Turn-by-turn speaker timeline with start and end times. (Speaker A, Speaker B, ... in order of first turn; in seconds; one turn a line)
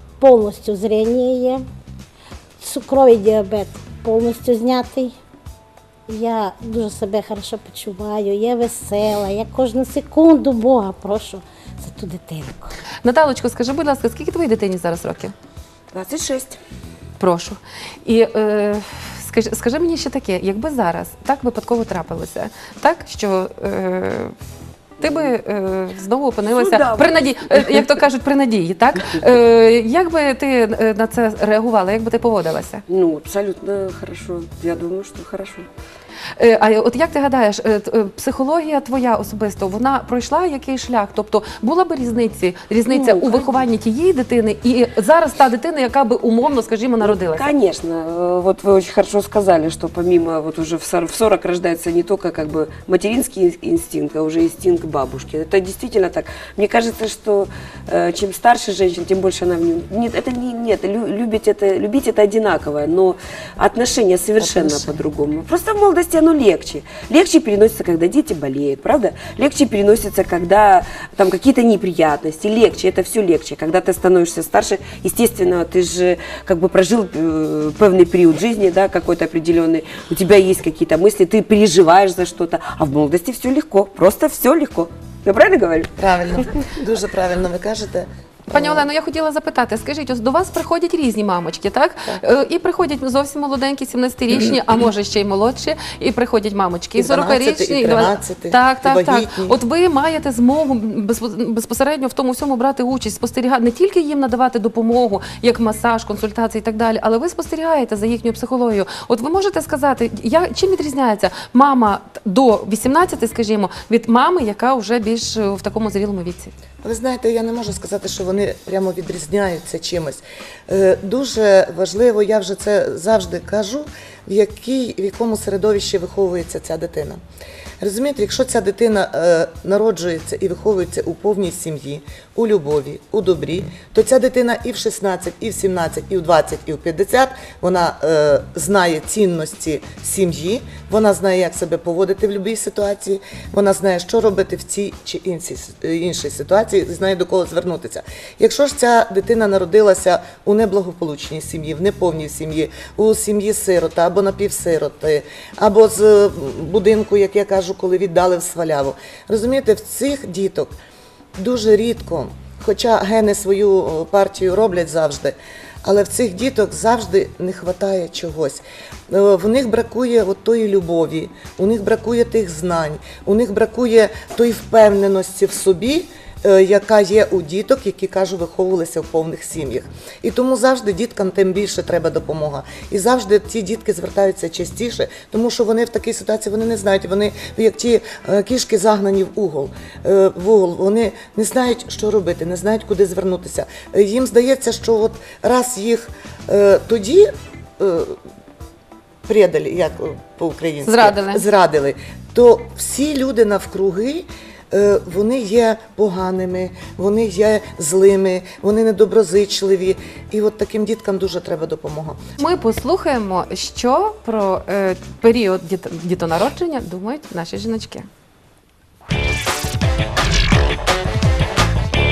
Speaker A: 0.2-1.6
Speaker A: 2.6-5.1
Speaker A: 6.1-12.7
Speaker B: 13.0-15.3
Speaker C: 15.9-16.6
Speaker B: 17.2-24.3
Speaker B: 25.0-32.8
Speaker C: 26.5-27.9
Speaker C: 32.9-35.7
Speaker B: 36.4-47.5
Speaker C: 42.9-43.6
Speaker C: 47.0-85.9
Speaker D: 64.4-65.0
Speaker D: 86.0-88.8
Speaker B: 88.5-116.5
Speaker D: 97.0-99.6
Speaker D: 116.8-127.2
Speaker D: 127.8-160.7
Speaker D: 161.4-198.2
Speaker D: 199.2-212.2
Speaker B: 200.8-201.4
Speaker B: 212.4-218.1